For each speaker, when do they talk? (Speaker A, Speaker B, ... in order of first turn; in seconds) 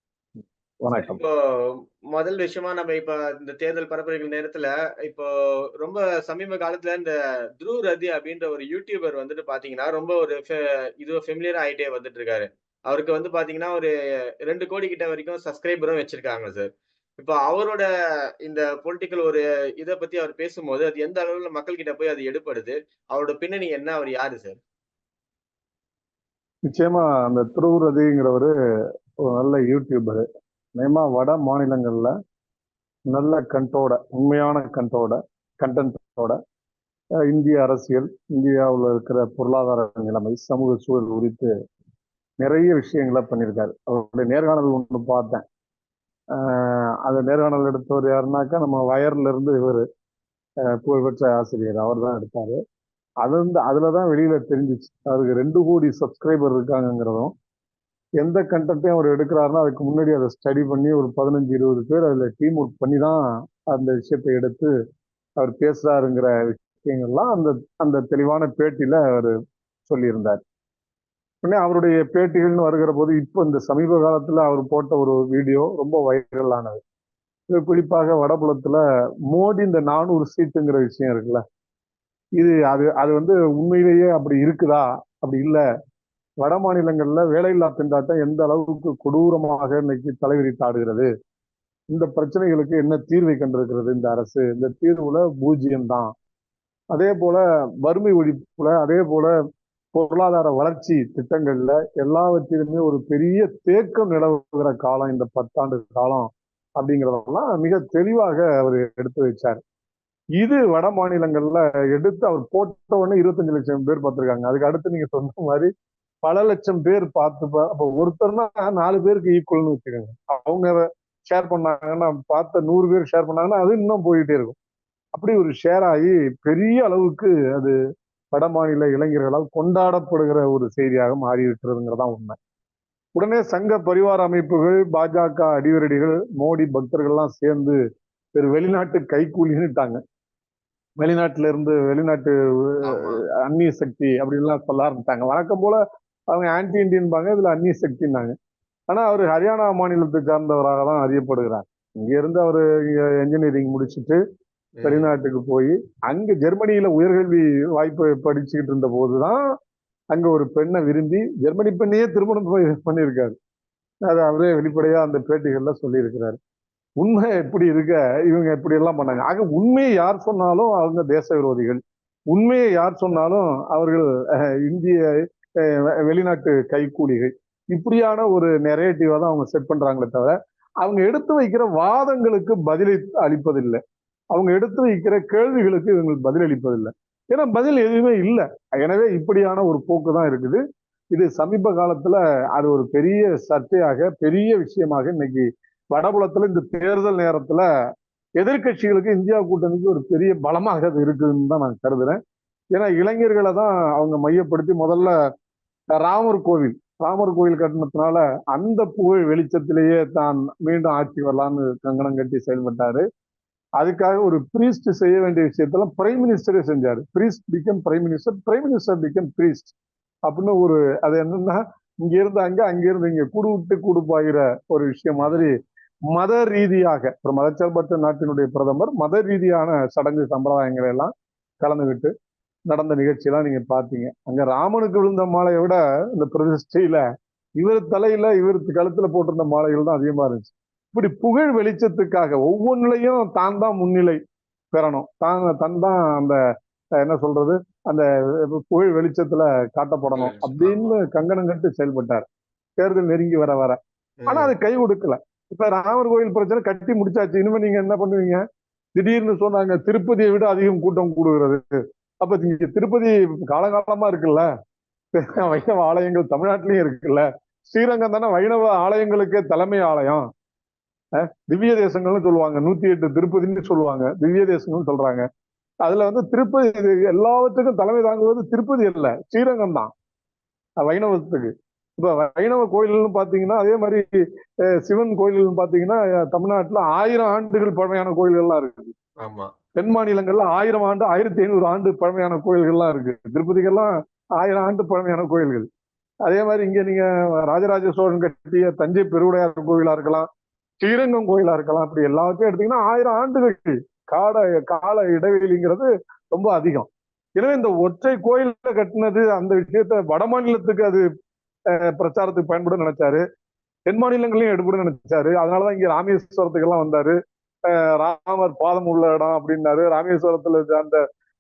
Speaker A: 0.8-1.2, 26.7-28.5, 29.2-30.2, 30.8-32.1, 33.1-36.4, 37.3-41.5, 42.4-45.4, 46.3-49.8, 50.8-52.6, 53.2-57.3, 58.2-64.7, 65.4-69.3, 69.9-70.4, 71.4-76.8, 77.5-81.4, 82.4-85.6, 86.4-91.1, 91.9-96.1, 96.9-99.3, 99.9-109.6, 110.4-115.7, 116.2-124.5, 125.1-127.7, 128.3-132.4, 133.1-137.8, 138.3-140.0, 141.0-145.8, 146.3-148.3, 148.9-154.2, 154.8-159.4, 160.1-163.3, 164.1-166.4, 167.0-171.8, 172.3-175.0, 175.6-183.8, 184.3-190.6, 191.1-197.6, 198.4-202.2, 202.7-205.1, 205.9-213.0, 213.8-219.7, 220.3-225.5, 226.1-232.1, 232.7-237.0, 237.6-244.2, 244.7-246.4, 247.0-252.2, 252.8-258.4, 258.9-261.6, 262.2-264.4, 265.1-270.2, 271.3-275.2, 275.8-279.9, 280.8-284.1, 284.8-288.9, 289.8-295.6, 296.2-300.3, 300.8-311.0, 311.8-313.2, 313.9-317.1, 317.7-321.0
Speaker B: 0.9-17.9, 18.4-24.6, 142.8-143.2, 154.8-155.1, 225.2-225.5, 250.1-250.9, 254.2-254.5, 265.4-265.6, 289.2-289.5